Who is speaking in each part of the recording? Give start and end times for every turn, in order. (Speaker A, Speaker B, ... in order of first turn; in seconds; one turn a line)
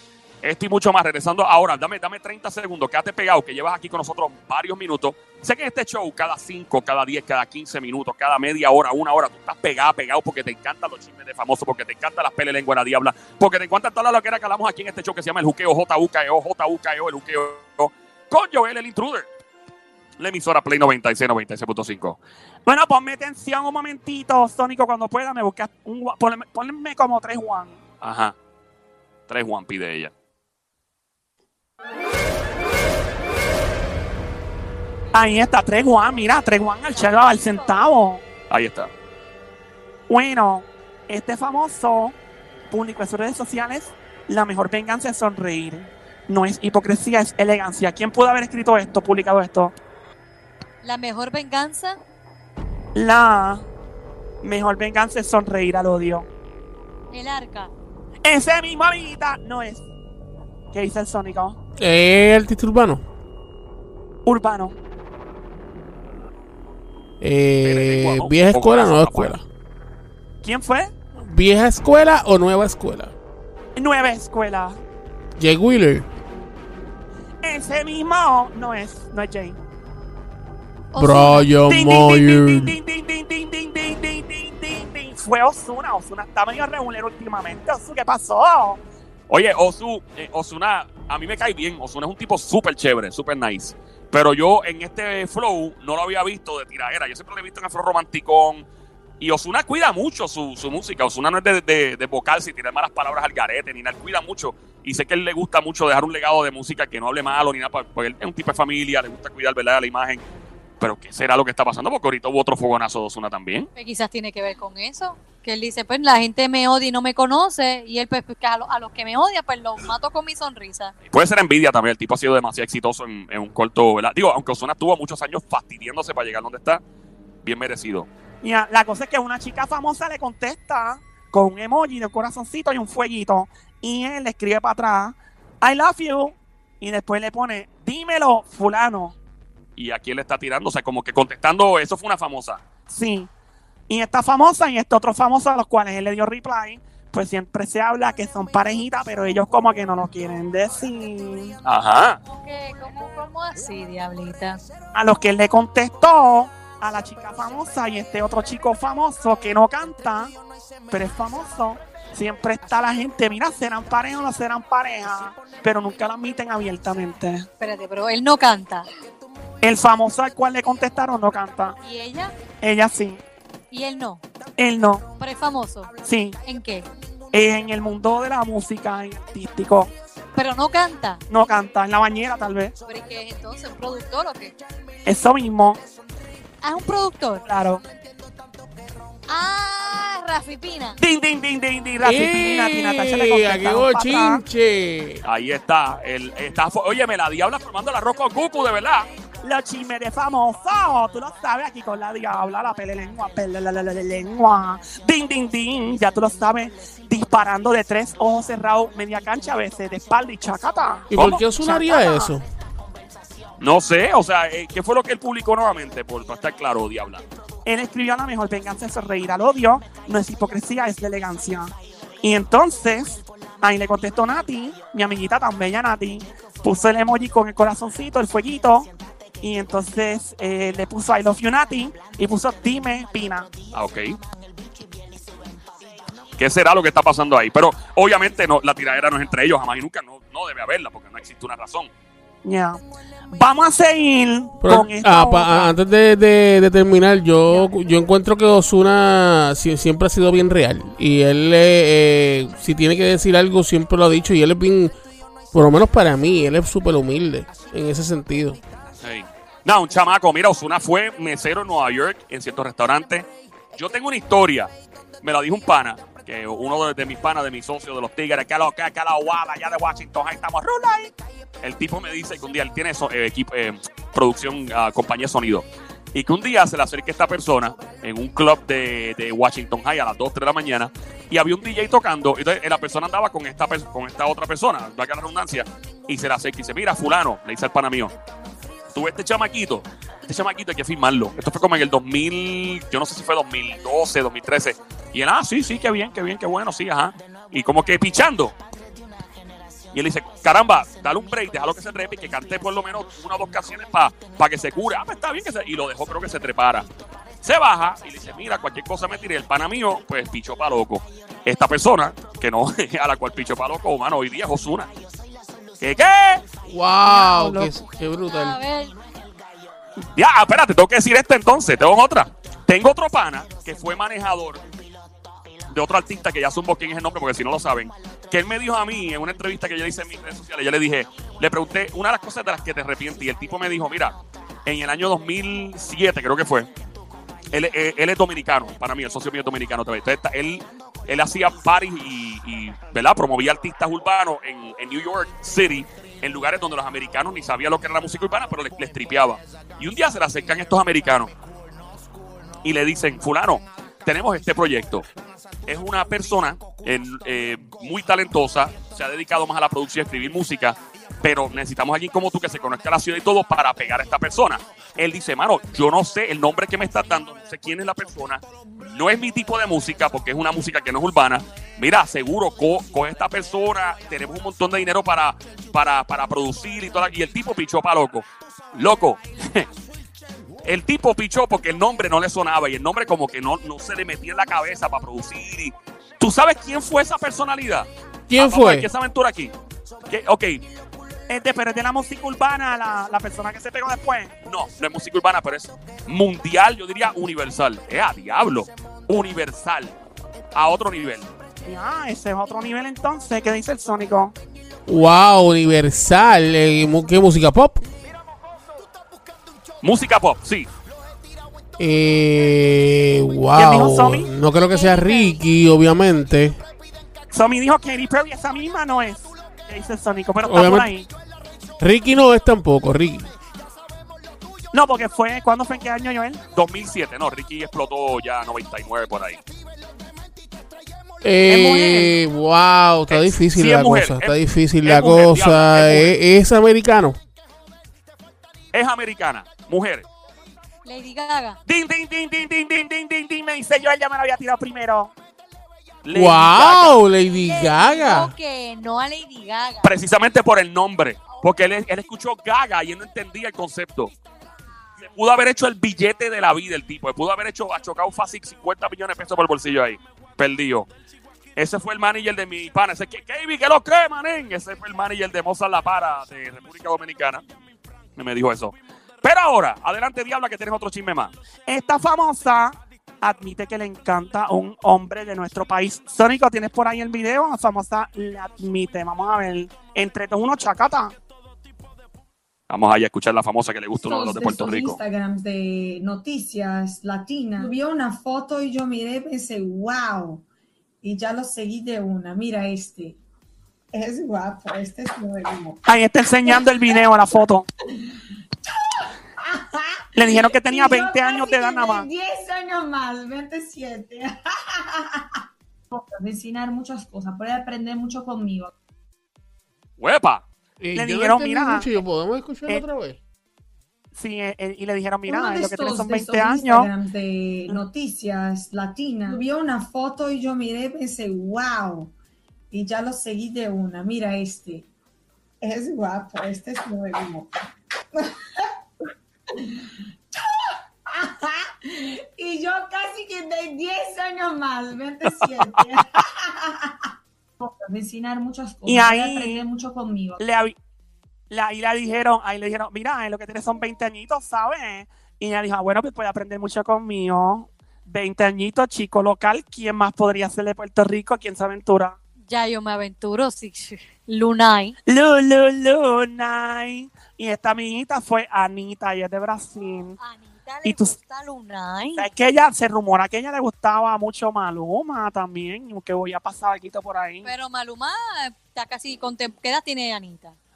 Speaker A: 0.4-19.3
Speaker A: 20.2-22.2
Speaker B: 22.7-27.8
Speaker A: 28.0-28.4
Speaker A: 29.3-30.1
Speaker B: 35.1-38.2
Speaker C: 37.4-37.7
Speaker A: 38.5-38.9
Speaker B: 40.1-42.2
Speaker B: 42.7-49.7
Speaker C: 50.8-52.0
Speaker B: 53.0-53.6
Speaker B: 54.4-56.3
Speaker C: 57.1-57.7
Speaker B: 58.2-59.9
Speaker B: 60.7-61.6
Speaker D: 61.8-63.0
Speaker B: 64.3-64.8
Speaker D: 67.2-69.4
Speaker A: 67.6-69.4
Speaker B: 70.4-70.9
Speaker D: 71.3-73.1
Speaker B: 73.8-74.8
Speaker D: 75.4-76.0
Speaker B: 77.4-79.6
Speaker C: 80.9-81.5
Speaker D: 81.0-82.8
Speaker B: 81.7-88.8
Speaker A: 89.3-98.7
Speaker A: 99.2-110.2
Speaker A: 110.8-113.7
Speaker C: 113.8-120.9
Speaker A: 121.1-126.8
Speaker A: 127.4-128.1
Speaker B: 128.4-139.2
Speaker A: 139.8-142.6
Speaker B: 142.9-143.3
Speaker B: 143.9-151.6
Speaker A: 151.7-152.2
Speaker C: 152.3-154.6
Speaker B: 154.9-160.3
Speaker B: 160.9-167.5
Speaker C: 167.6-168.8
Speaker B: 169.6-171.8
Speaker C: 171.8-172.3
Speaker B: 172.6-173.2
Speaker C: 173.7-174.2
Speaker B: 174.6-175.1
Speaker C: 175.2-175.9
Speaker B: 176.0-176.4
Speaker C: 176.4-176.9
Speaker B: 177.3-179.9
Speaker C: 180.3-181.2
Speaker B: 181.3-182.8
Speaker C: 182.9-184.6
Speaker B: 185.1-185.8
Speaker C: 186.6-187.4
Speaker B: 187.4-187.8
Speaker C: 189.3-191.0
Speaker B: 191.0-194.4
Speaker D: 192.0-195.2
Speaker A: 195.2-199.1
Speaker B: 199.4-212.3
Speaker D: 211.1-212.4
Speaker A: 211.1-211.4
Speaker A: 213.6-217.2
Speaker B: 217.7-228.9
Speaker B: 229.4-233.5
Speaker A: 233.7-234.2
Speaker A: 236.4-241.9
Speaker B: 242.4-242.8
Speaker B: 243.3-245.8
Speaker D: 244.6-254.9
Speaker D: 255.5-258.6
Speaker A: 259.0-288.1
Speaker A: 288.9-298.6
Speaker A: 299.9-306.9
Speaker A: 307.4-314.9
Speaker A: 315.8-316.4
Speaker D: 316.7-318.6
Speaker B: 317.0-317.8
Speaker C: 318.2-318.9
Speaker A: 320.1-324.6
Speaker A: 325.7-336.7
Speaker A: 337.5-351.3
Speaker A: 352.6-355.1
Speaker A: 355.7-379.7
Speaker A: 380.6-389.5
Speaker D: 388.3-388.9
Speaker A: 390.1-390.6
Speaker B: 391.3-394.3
Speaker A: 394.5-399.9
Speaker A: 400.5-401.3
Speaker B: 401.6-404.4
Speaker D: 404.9-407.8
Speaker A: 409.8-410.7
Speaker D: 411.8-416.6
Speaker B: 413.6-414.3
Speaker C: 414.7-415.4
Speaker B: 417.3-421.1
Speaker D: 420.4-420.9
Speaker D: 421.8-423.3
Speaker B: 424.7-426.4
Speaker A: 426.5-429.4
Speaker D: 431.2-437.2
Speaker B: 431.5-432.2
Speaker A: 433.1-436.1
Speaker A: 438.7-440.1
Speaker C: 440.9-441.6
Speaker B: 441.7-445.1
Speaker A: 446.1-447.0
Speaker D: 446.1-448.3
Speaker C: 447.4-449.9
Speaker A: 449.8-454.1
Speaker A: 455.0-460.9
Speaker A: 461.6-467.4
Speaker A: 468.2-471.3
Speaker B: 471.7-481.1
Speaker A: 482.7-485.0
Speaker E: 484.0-490.4
Speaker E: 491.0-493.2
Speaker E: 493.9-495.8
Speaker B: 495.9-497.7
Speaker E: 496.5-497.1
Speaker E: 498.0-508.7
Speaker B: 500.1-502.1
Speaker A: 510.0-510.4
Speaker D: 510.8-513.2
Speaker B: 510.9-511.9
Speaker B: 514.1-516.9
Speaker E: 515.3-522.1
Speaker E: 522.7-524.9
Speaker E: 525.6-527.5
Speaker E: 528.1-528.7
Speaker E: 529.5-540.4
Speaker B: 538.9-539.6
Speaker B: 540.4-540.8
Speaker B: 541.5-552.2
Speaker C: 552.5-555.0
Speaker B: 555.1-560.2
Speaker C: 560.2-562.3
Speaker B: 560.9-561.1
Speaker B: 562.2-567.5
Speaker C: 567.4-570.6